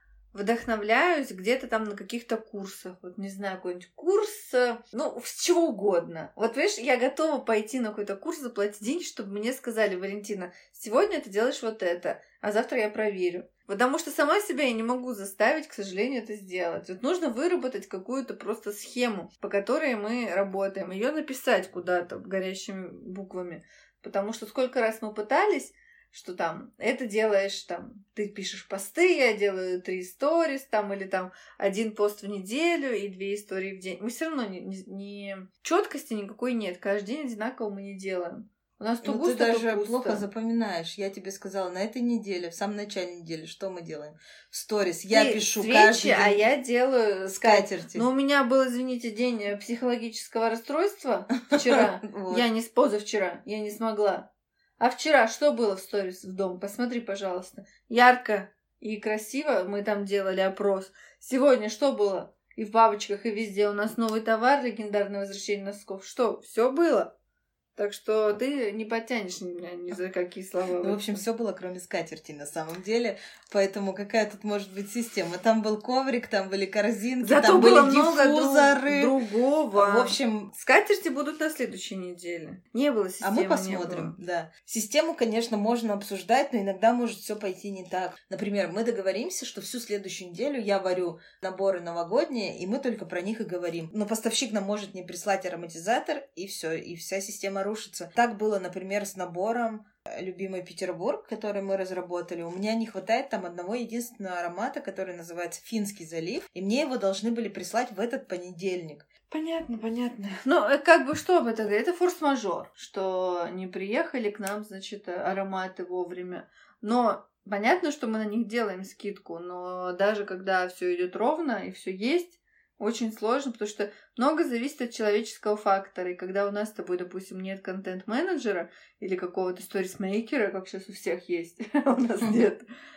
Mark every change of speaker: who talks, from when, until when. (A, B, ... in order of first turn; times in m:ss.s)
0:00.3-0:40.2 A
0:39.0-0:46.4 B
0:45.1-0:54.3 A
0:47.3-0:48.1 B
0:51.5-0:52.4 B
0:54.8-1:07.1 A
1:07.8-1:11.2 A
1:10.8-1:19.2 B
1:17.2-1:24.2 A
1:19.7-1:20.5 B
1:23.2-1:49.1 B
1:49.3-2:12.6 A